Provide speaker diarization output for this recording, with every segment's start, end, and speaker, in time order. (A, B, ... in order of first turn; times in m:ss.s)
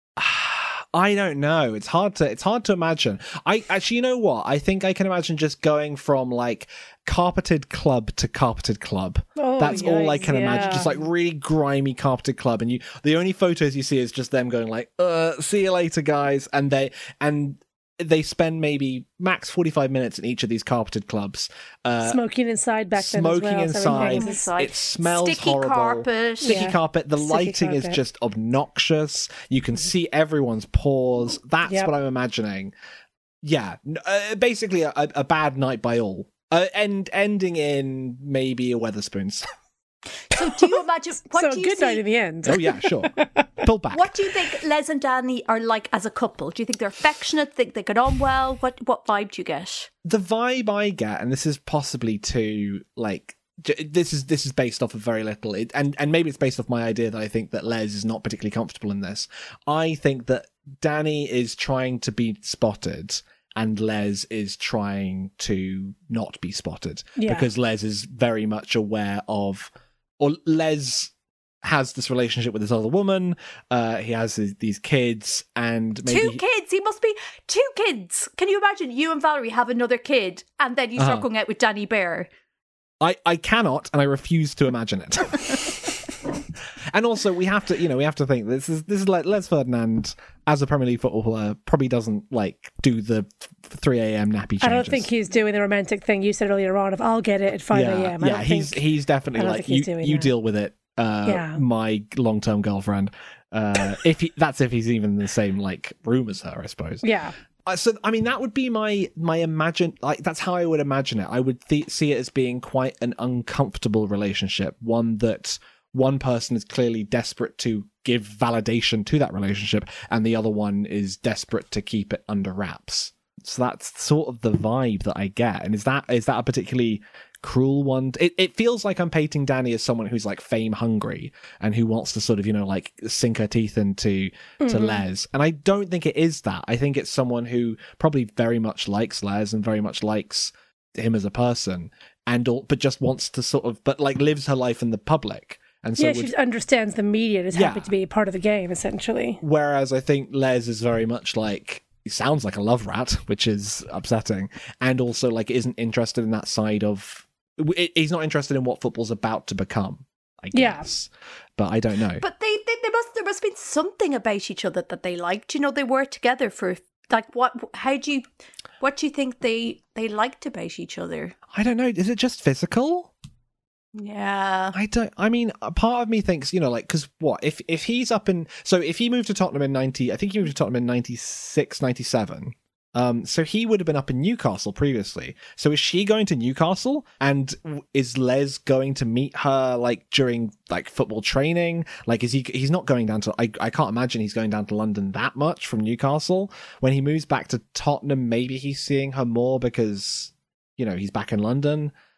0:00.2-0:22.2 A
0:09.4-0:10.9 B
0:22.0-0:24.5 B
0:23.0-0:32.7 A
0:23.9-0:26.7 C
0:26.4-0:28.0 B
0:31.7-0:31.9 B
0:33.4-0:39.4 A
0:40.3-0:42.0 C
0:41.3-0:43.5 B
0:42.4-0:44.2 A
0:43.9-0:49.9 C
0:50.0-1:11.1 A
1:07.2-1:07.5 B
1:11.6-1:16.4 A
1:16.1-1:22.3 C
1:21.0-1:21.3 A
1:23.0-1:26.0 A
1:26.9-1:35.1 A
1:34.6-1:40.3 B
1:37.7-1:47.1 A
1:41.2-1:41.6 B
1:47.0-1:47.4 B
1:47.7-2:26.3 A
2:14.6-2:15.0 B
2:26.0-2:29.4 B
2:27.5-2:27.9 A
2:29.4-2:42.2 A
2:40.5-2:40.9 B
2:42.2-2:48.2 C
2:48.8-2:51.4 C
2:51.5-2:53.1 A
2:54.0-2:54.8 C
2:54.7-3:21.9 A